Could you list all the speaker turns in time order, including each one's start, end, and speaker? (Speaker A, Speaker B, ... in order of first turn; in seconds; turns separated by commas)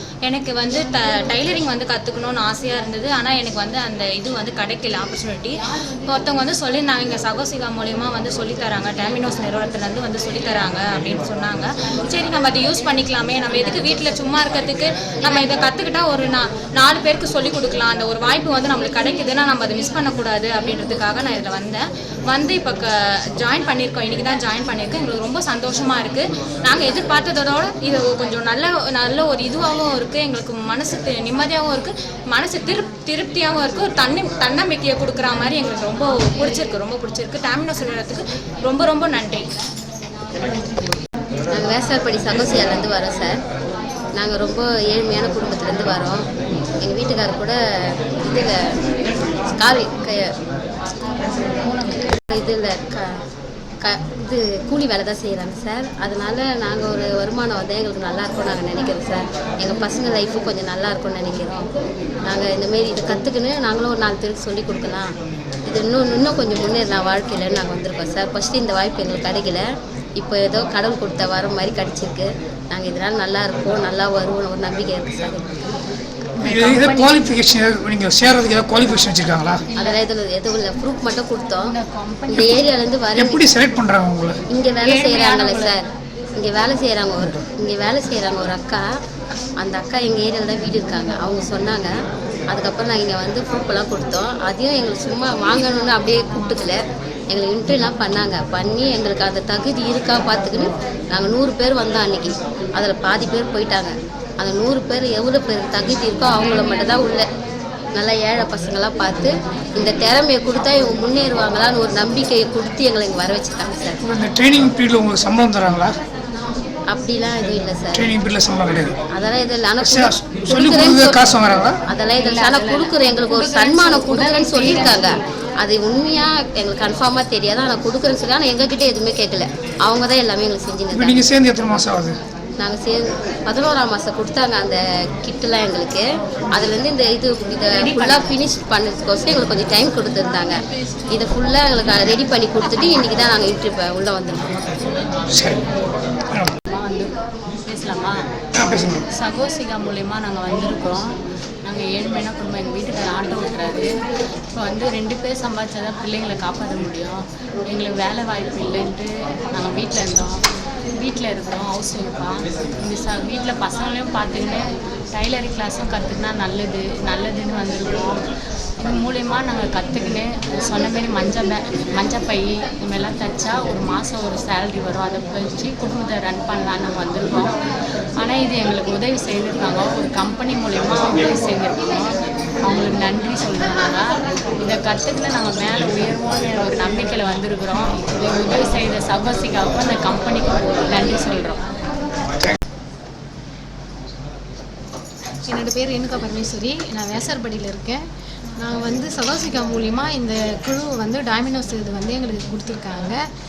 Speaker A: 0.2-39.5, Speaker B: 41.5-43.4, Speaker B: 44.1-46.2, Speaker B: 46.8-47.5, Speaker B: 48.1-48.8, Speaker B: 49.4-50.3, Speaker C: 51.2-52.1, Speaker B: 52.3-53.0, Speaker B: 53.8-61.7, Speaker B: 62.2-65.1, Speaker B: 65.7-69.6, Speaker B: 70.2-75.5, Speaker D: 76.4-79.6, Speaker C: 76.4-77.4, Speaker B: 79.8-81.7, Speaker C: 81.6-82.8, Speaker B: 82.3-83.4, Speaker D: 83.1-84.4, Speaker B: 84.5-85.8, Speaker C: 84.8-85.7, Speaker B: 86.3-88.8, Speaker B: 89.6-91.9, Speaker B: 92.5-107.2, Speaker B: 107.9-114.0, Speaker D: 114.0-115.9, Speaker B: 116.9-118.1, Speaker D: 117.9-118.9, Speaker B: 119.1-131.2, Speaker D: 119.8-121.8, Speaker C: 122.1-125.1, Speaker D: 130.9-132.2, Speaker B: 132.6-140.6, Speaker C: 137.8-138.3, Speaker B: 141.1-144.6, Speaker D: 145.3-145.6, Speaker C: 146.7-147.1, Speaker C: 147.7-148.3, Speaker D: 148.6-149.0, Speaker C: 149.1-151.1, Speaker C: 151.6-153.9, Speaker C: 154.5-160.4, Speaker C: 160.9-168.2, Speaker C: 168.8-177.5, Speaker C: 178.2-182.1, Speaker C: 182.6-184.1, Speaker C: 184.6-191.6, Speaker E: 195.4-198.0, Speaker E: 198.6-203.2